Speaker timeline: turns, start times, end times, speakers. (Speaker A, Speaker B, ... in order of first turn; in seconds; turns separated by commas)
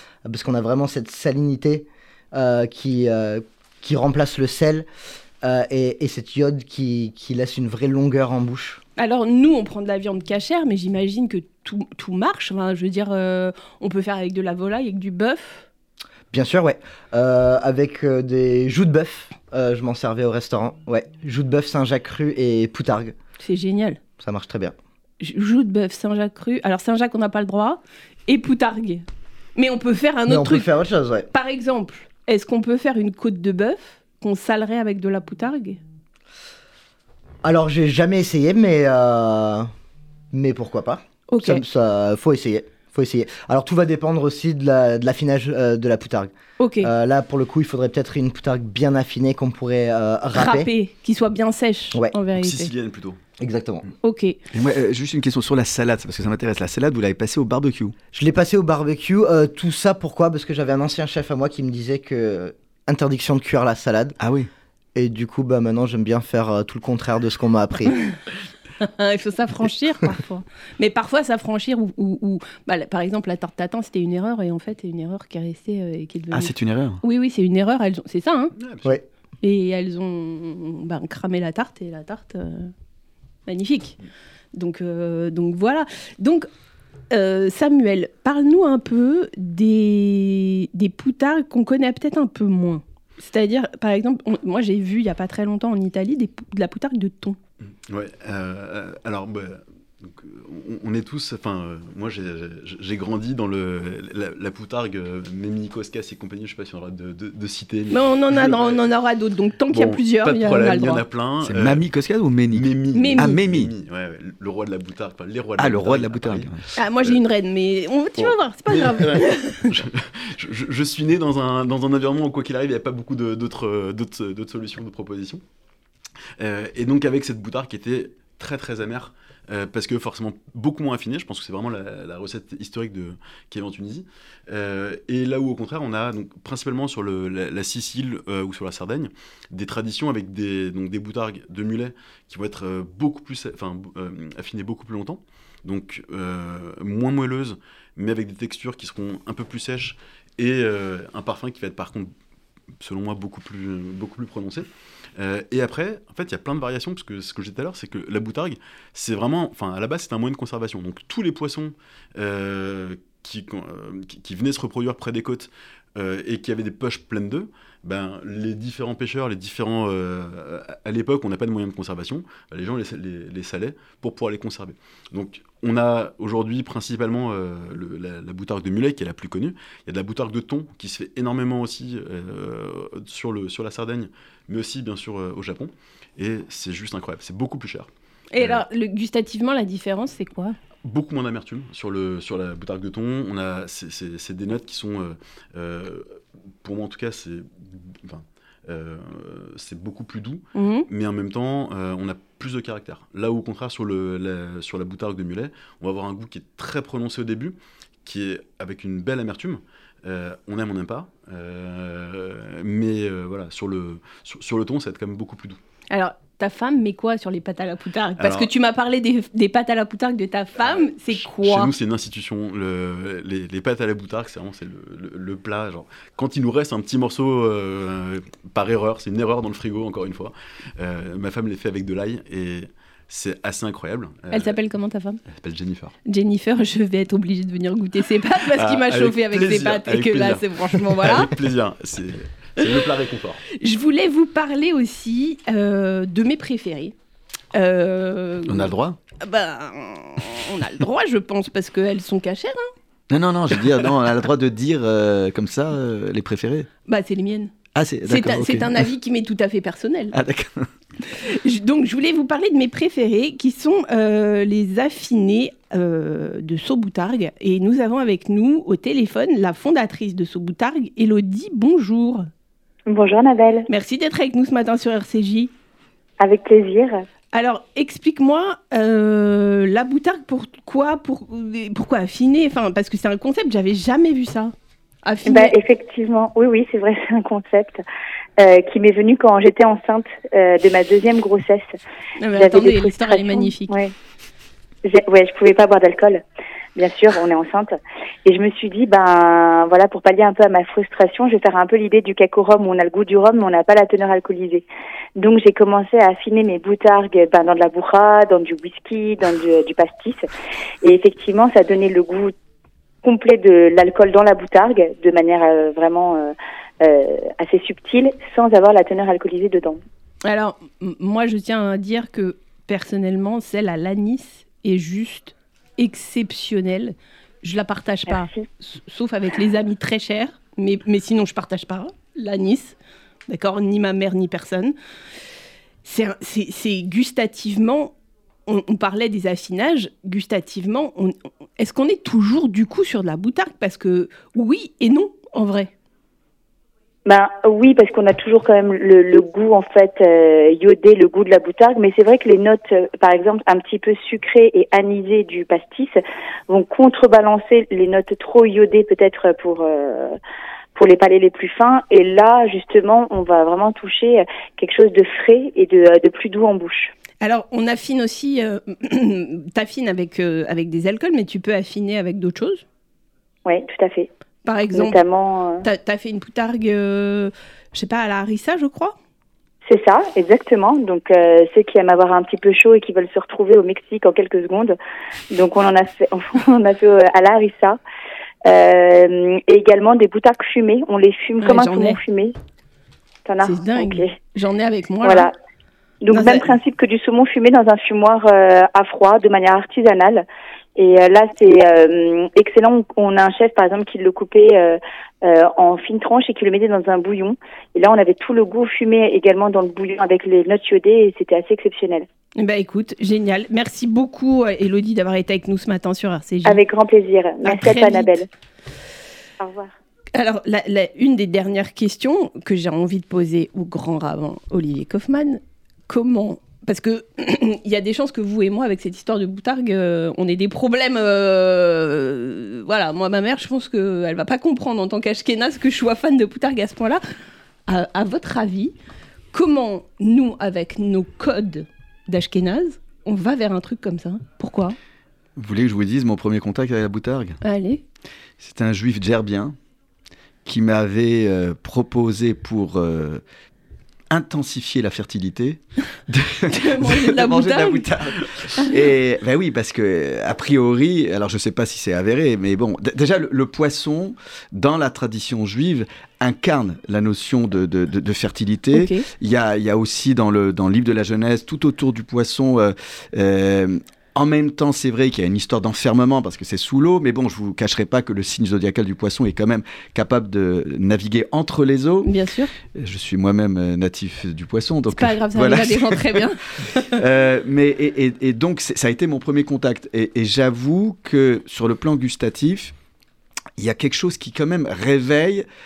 Speaker A: 0.2-4.8, Speaker A: 5.4-8.8, Speaker B: 9.0-15.7, Speaker A: 16.3-23.1, Speaker B: 23.4-24.0, Speaker A: 24.2-24.7, Speaker B: 25.2-29.0, Speaker B: 29.6-30.7, Speaker A: 30.3-31.3, Speaker B: 31.3-35.8, Speaker A: 37.4-39.7, Speaker A: 40.3-50.7, Speaker B: 41.3-41.6, Speaker B: 46.6-46.9, Speaker B: 50.3-52.7, Speaker C: 52.4-53.2, Speaker A: 53.4-53.9, Speaker B: 54.0-54.4, Speaker D: 54.5-57.9, Speaker A: 58.1-64.2, Speaker D: 64.2-64.5, Speaker A: 64.9-67.9, Speaker B: 68.8-78.5, Speaker D: 76.3-77.0, Speaker C: 78.6-79.0, Speaker B: 79.4-82.7, Speaker B: 83.5-84.0, Speaker B: 84.5-86.5, Speaker B: 87.1-97.4, Speaker C: 97.8-108.8, Speaker B: 107.9-111.0, Speaker C: 109.7-111.8, Speaker D: 111.4-113.7, Speaker C: 112.5-117.2, Speaker B: 112.9-113.4, Speaker D: 115.6-116.6, Speaker B: 116.8-119.8, Speaker C: 118.7-125.4, Speaker C: 126.4-152.1, Speaker C: 152.8-188.6, Speaker B: 188.3-190.6, Speaker C: 190.8-215.6, Speaker B: 200.5-200.9, Speaker B: 215.9-221.7, Speaker C: 218.2-218.5, Speaker C: 220.6-234.6, Speaker B: 234.3-235.2, Speaker C: 235.3-235.9, Speaker B: 236.1-241.3, Speaker C: 238.5-243.4, Speaker B: 243.5-246.9, Speaker B: 247.5-252.7, Speaker D: 248.5-249.0, Speaker D: 253.1-256.7, Speaker B: 256.9-257.5, Speaker D: 257.7-258.9, Speaker B: 258.1-260.1, Speaker D: 260.1-260.7, Speaker B: 261.1-272.3, Speaker E: 272.9-273.7, Speaker B: 273.7-275.5, Speaker E: 276.2-277.0, Speaker B: 277.3-284.5, Speaker B: 285.0-285.6, Speaker E: 285.2-287.8, Speaker E: 288.4-291.6, Speaker B: 292.2-293.8, Speaker E: 292.3-293.9, Speaker E: 294.8-296.2, Speaker E: 296.8-304.6, Speaker E: 305.2-310.2, Speaker E: 310.8-312.3, Speaker E: 313.0-319.8, Speaker B: 320.2-332.8, Speaker B: 333.3-334.7, Speaker B: 335.8-337.9, Speaker B: 338.4-345.7, Speaker E: 347.1-356.0, Speaker E: 356.5-360.2, Speaker E: 360.7-366.9, Speaker B: 367.2-372.6, Speaker E: 373.4-374.1, Speaker B: 374.4-375.0, Speaker E: 374.7-375.6, Speaker B: 375.6-378.9, Speaker E: 379.7-384.8, Speaker E: 385.3-387.8, Speaker E: 388.4-392.3, Speaker B: 391.4-392.0, Speaker E: 393.2-394.1, Speaker B: 393.4-395.3, Speaker E: 395.0-395.3, Speaker E: 396.0-412.1, Speaker B: 396.1-396.6, Speaker B: 412.4-416.6, Speaker E: 416.4-418.2, Speaker B: 417.4-418.2, Speaker E: 419.4-419.7, Speaker B: 420.1-437.0, Speaker B: 437.7-438.7, Speaker B: 439.3-444.8, Speaker D: 445.4-447.4, Speaker B: 447.4-447.8, Speaker D: 448.4-449.6, Speaker D: 450.4-453.2, Speaker D: 454.1-482.1, Speaker B: 456.5-457.9, Speaker B: 458.5-458.9, Speaker B: 468.7-469.1, Speaker B: 482.0-482.5, Speaker D: 482.7-492.7, Speaker B: 484.9-487.0, Speaker D: 493.6-495.4